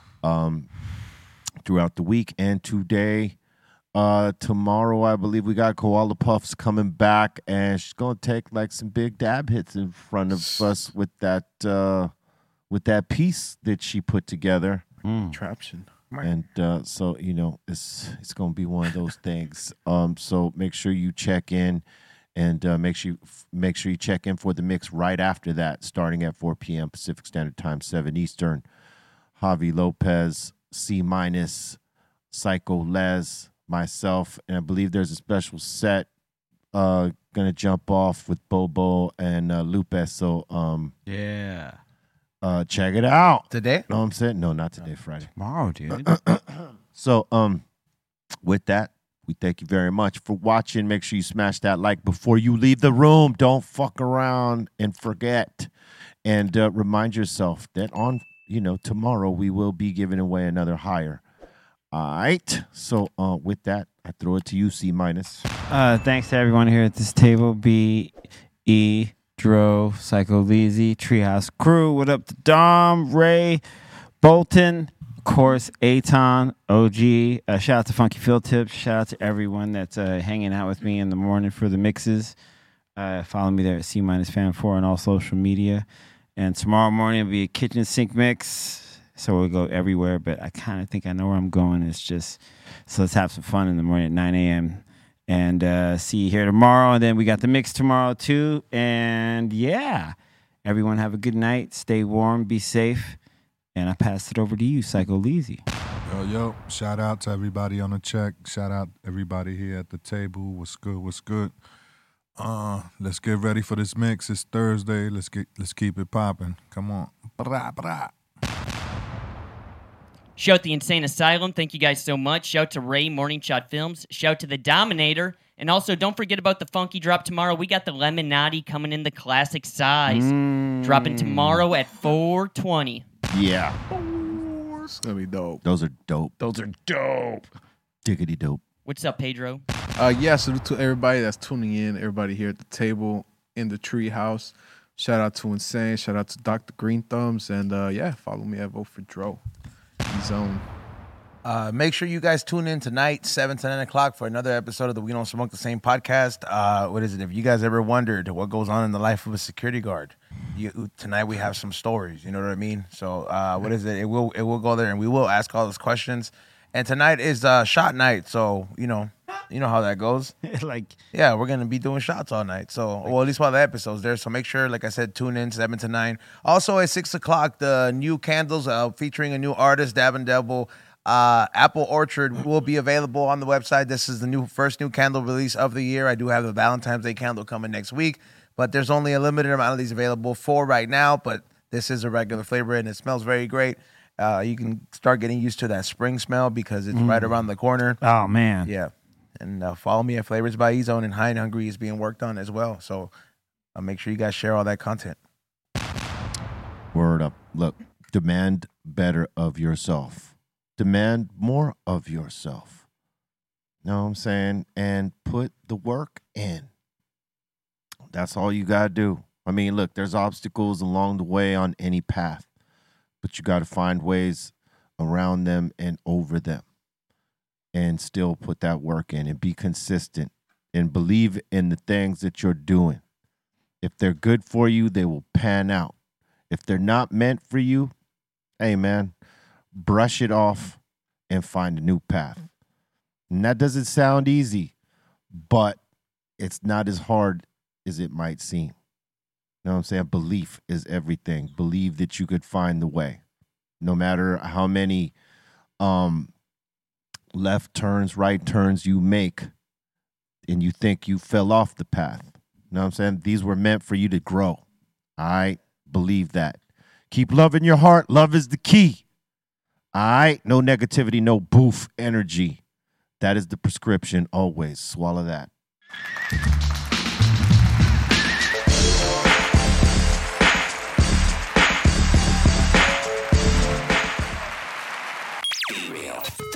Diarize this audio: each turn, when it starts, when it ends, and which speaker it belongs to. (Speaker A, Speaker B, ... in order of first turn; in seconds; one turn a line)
Speaker A: 0.2-0.7
Speaker A: 1.6-3.4
Speaker A: 3.9-12.1
Speaker B: 10.4-10.6
Speaker A: 12.7-14.8
Speaker C: 15.0-15.4
Speaker B: 15.3-15.9
Speaker A: 16.2-28.6
Speaker A: 29.4-31.8
Speaker A: 32.3-36.1
Speaker A: 36.7-40.9
Speaker C: 41.1-41.8
Speaker A: 42.4-45.3
Speaker D: 43.5-43.8
Speaker C: 45.4-46.1
Speaker A: 45.9-47.6
Speaker A: 48.4-55.7
Speaker A: 56.2-61.2
Speaker A: 61.9-65.4
Speaker C: 65.7-68.1
Speaker C: 68.7-73.6
Speaker C: 74.2-82.3
Speaker C: 83.0-103.2
Speaker C: 103.7-105.6
Speaker E: 106.0-111.5
Speaker E: 112.4-118.1
Speaker F: 120.4-130.3
Speaker C: 130.1-131.6
Speaker F: 130.8-133.0
Speaker A: 133.3-133.8
Speaker B: 134.9-135.6
Speaker A: 135.6-136.3
Speaker C: 136.4-137.4
Speaker A: 138.0-138.6
Speaker F: 138.8-139.6
Speaker B: 140.0-149.4
Speaker B: 150.1-150.6
Speaker D: 151.4-170.3
Speaker C: 170.4-170.9
Speaker D: 171.1-198.0
Speaker C: 173.0-173.3
Speaker C: 196.9-197.4
Speaker C: 198.0-198.7
Speaker D: 198.6-203.1
Speaker D: 203.7-205.2
Speaker A: 206.9-212.8
Speaker A: 213.8-216.7
Speaker A: 218.1-222.5
Speaker A: 223.2-226.7
Speaker A: 227.7-233.0
Speaker A: 233.8-235.9
Speaker A: 236.5-237.9
Speaker A: 238.6-239.1
Speaker A: 239.7-242.4
Speaker A: 243.3-244.7
Speaker A: 245.3-245.8
Speaker A: 246.4-248.8
Speaker A: 249.6-253.2
Speaker A: 253.8-255.1
Speaker A: 255.8-256.3
Speaker A: 257.3-259.5
Speaker A: 260.5-264.6
Speaker A: 265.2-266.6
Speaker A: 267.1-269.0
Speaker A: 269.9-272.6
Speaker A: 273.2-275.5